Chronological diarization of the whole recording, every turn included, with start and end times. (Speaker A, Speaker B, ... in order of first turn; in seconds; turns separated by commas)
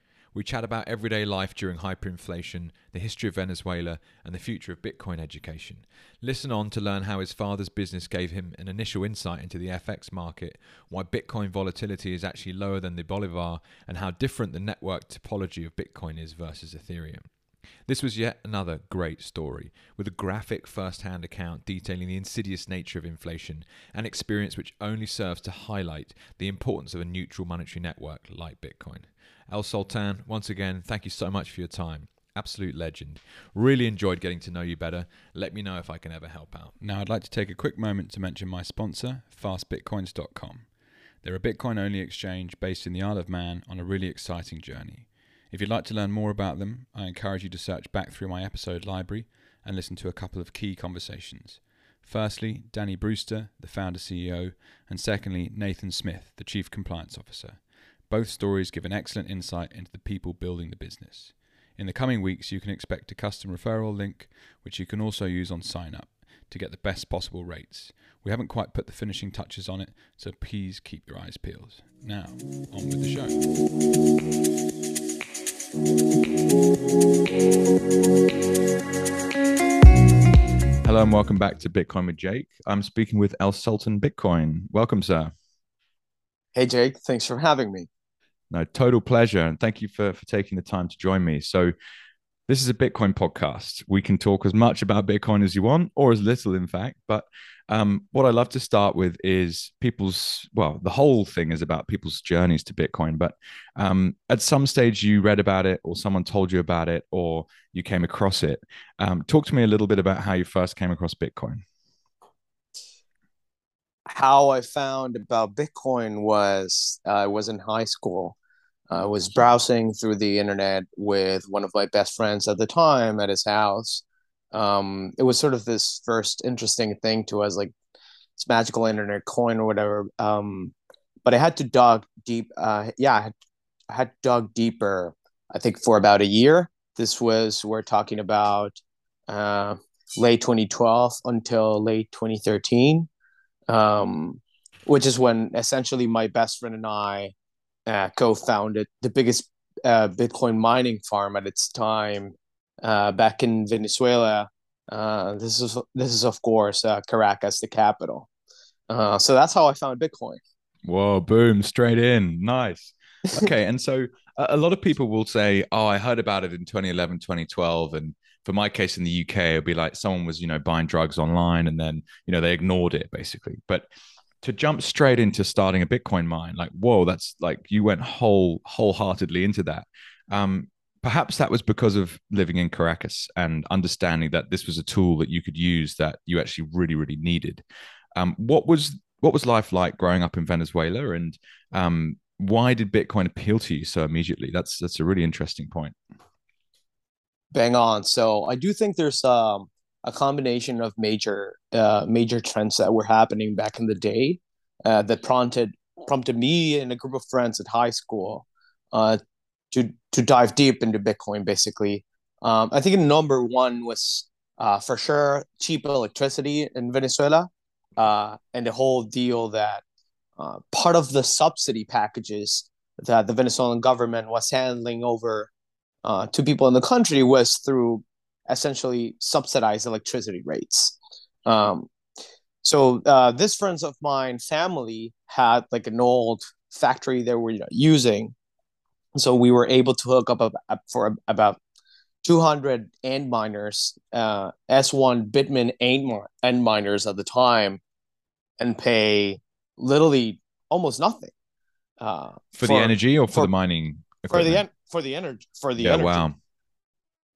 Speaker A: 0.3-17.3, Speaker A: 17.9-36.8, Speaker B: 36.8-73.4, Speaker A: 80.8-85.3, Speaker C: 86.5-87.9, Speaker A: 88.5-91.7, Speaker A: 92.5-111.6, Speaker C: 114.1-118.4, Speaker C: 118.9-127.7, Speaker C: 128.4-133.3, Speaker C: 133.9-138.8, Speaker C: 139.3-143.1, Speaker C: 143.7-147.3, Speaker C: 147.9-158.3, Speaker C: 158.9-160.4, Speaker A: 160.8-173.9, Speaker A: 174.4-187.6, Speaker A: 188.2-196.0, Speaker C: 197.5-209.2, Speaker C: 209.7-219.8, Speaker C: 220.4-225.5, Speaker C: 226.0-230.9, Speaker C: 231.5-231.9, Speaker C: 232.6-238.3, Speaker C: 239.2-241.6, Speaker C: 242.2-247.8, Speaker C: 248.6-251.3, Speaker C: 252.0-253.5, Speaker A: 252.6-254.6, Speaker C: 254.3-256.2, Speaker A: 255.8-256.4